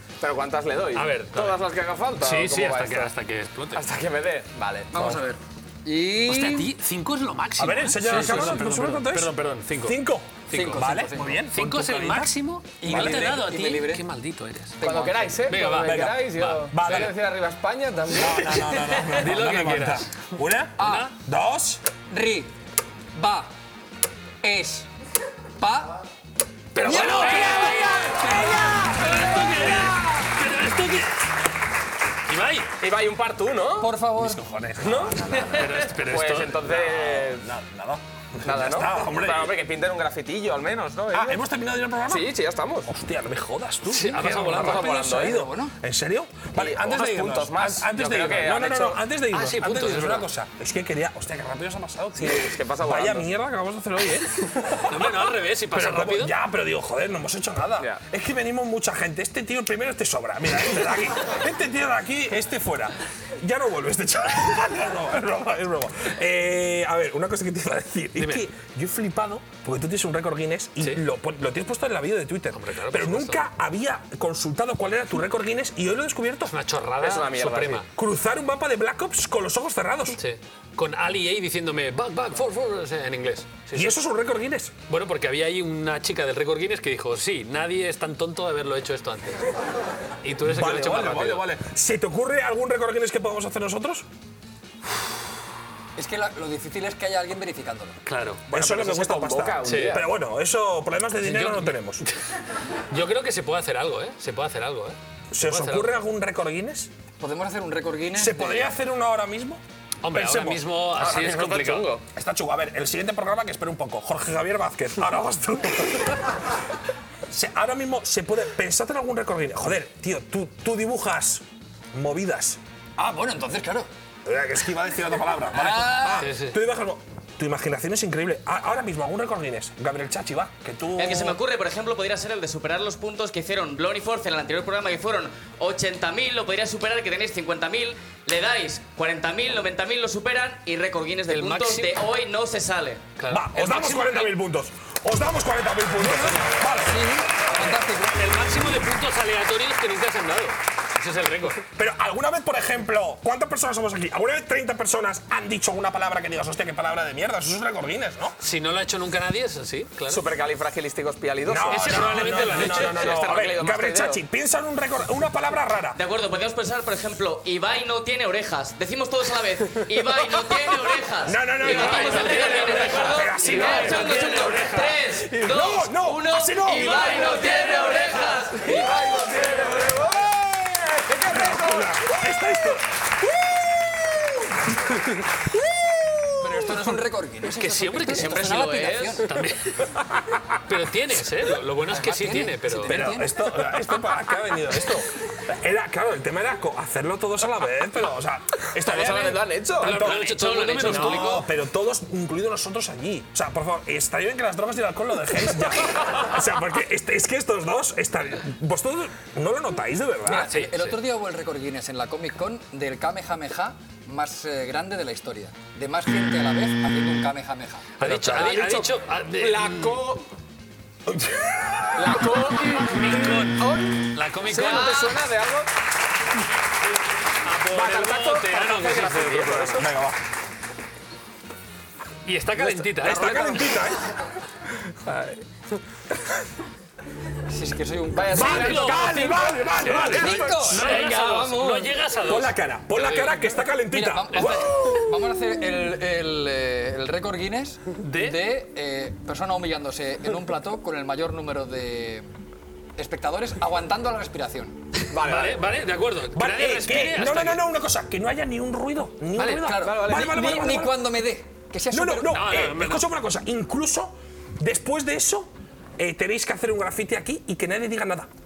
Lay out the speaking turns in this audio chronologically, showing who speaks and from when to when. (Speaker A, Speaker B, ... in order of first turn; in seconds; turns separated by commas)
Speaker A: 0.2-3.1, Speaker B: 0.9-1.6, Speaker B: 2.2-3.8, Speaker A: 3.7-5.3, Speaker C: 4.9-6.7, Speaker B: 6.2-10.0, Speaker D: 7.6-12.3, Speaker B: 10.5-10.9, Speaker C: 10.5-11.4, Speaker B: 11.5-14.8, Speaker C: 12.8-14.0, Speaker C: 14.8-15.6, Speaker A: 14.8-19.0, Speaker B: 15.5-17.1, Speaker D: 15.8-17.1, Speaker D: 18.1-21.8, Speaker B: 19.0-20.1, Speaker C: 20.8-21.1, Speaker B: 20.8-21.1, Speaker C: 22.1-22.5, Speaker C: 23.1-23.5, Speaker C: 24.4-24.9, Speaker C: 25.6-26.0, Speaker B: 26.7-31.2, Speaker C: 26.8-28.9, Speaker D: 26.8-29.9, Speaker A: 26.9-27.6, Speaker B: 32.3-32.7, Speaker A: 32.8-33.9, Speaker C: 33.8-34.4, Speaker D: 34.2-35.8, Speaker A: 34.8-35.5, Speaker B: 35.5-36.7, Speaker A: 36.0-37.5, Speaker D: 36.6-39.6, Speaker A: 38.4-41.4, Speaker D: 41.1-76.5, Speaker A: 42.1-42.9, Speaker B: 43.9-45.0, Speaker A: 44.3-45.5, Speaker C: 45.1-45.7, Speaker A: 46.5-49.0, Speaker B: 49.3-50.3, Speaker A: 52.2-53.3, Speaker B: 54.9-56.3, Speaker B: 68.2-68.5, Speaker B: 72.5-73.5, Speaker B: 76.5-77.9, Speaker A: 77.0-77.8, Speaker D: 77.9-80.2, Speaker B: 80.2-84.0, Speaker D: 83.7-84.8, Speaker B: 84.9-89.5, Speaker B: 90.2-91.5, Speaker D: 90.4-94.1, Speaker C: 96.0-98.0, Speaker B: 98.1-98.4, Speaker A: 98.5-100.1, Speaker D: 98.5-102.0, Speaker B: 99.6-100.0, Speaker B: 101.2-102.2, Speaker B: 102.9-105.9, Speaker D: 105.3-106.9, Speaker C: 107.2-108.7, Speaker D: 108.2-110.7, Speaker B: 110.0-111.9, Speaker A: 110.9-112.0, Speaker D: 112.2-116.5, Speaker D: 117.3-122.6, Speaker C: 123.0-123.9, Speaker D: 124.2-131.4, Speaker C: 125.5-126.3, Speaker B: 126.2-126.6, Speaker E: 131.0-143.1, Speaker B: 141.3-141.9, Speaker B: 143.2-144.4, Speaker D: 143.3-147.8, Speaker C: 146.0-148.2, Speaker B: 148.0-151.6, Speaker D: 151.8-158.4, Speaker B: 158.4-160.3, Speaker A: 160.1-164.2, Speaker D: 161.4-166.0, Speaker B: 161.7-163.2, Speaker E: 165.9-178.9, Speaker D: 171.2-177.9, Speaker B: 171.6-175.0, Speaker A: 173.5-173.9, Speaker A: 177.2-180.3, Speaker A: 180.9-182.0, Speaker D: 181.2-183.0, Speaker D: 186.1-186.7, Speaker C: 186.4-189.3, Speaker B: 187.5-189.9, Speaker E: 188.2-189.2, Speaker B: 190.7-193.0, Speaker C: 191.9-193.5, Speaker D: 192.8-210.6, Speaker A: 198.8-201.3, Speaker B: 199.8-201.5, Speaker C: 210.2-218.0, Speaker B: 210.5-211.0, Speaker B: 218.0-220.1, Speaker A: 218.0-220.3, Speaker D: 221.1-222.4, Speaker A: 222.0-225.7, Speaker B: 222.9-225.2, Speaker B: 227.4-229.9, Speaker A: 227.7-229.9, Speaker D: 229.7-230.2, Speaker B: 232.2-233.7, Speaker A: 232.6-233.6, Speaker D: 233.0-234.0, Speaker A: 235.1-235.4, Speaker C: 237.5-239.0, Speaker A: 238.1-241.2, Speaker D: 238.3-241.2, Speaker B: 238.4-239.1, Speaker B: 239.8-243.4, Speaker C: 240.0-241.9, Speaker D: 242.2-245.3, Speaker C: 243.9-252.3, Speaker B: 244.4-244.6, Speaker B: 248.0-248.4, Speaker C: 253.0-254.8, Speaker A: 255.1-255.6, Speaker B: 255.2-257.6, Speaker D: 256.3-261.1, Speaker C: 259.4-262.4, Speaker A: 259.8-260.7, Speaker D: 261.9-268.3, Speaker B: 262.3-263.1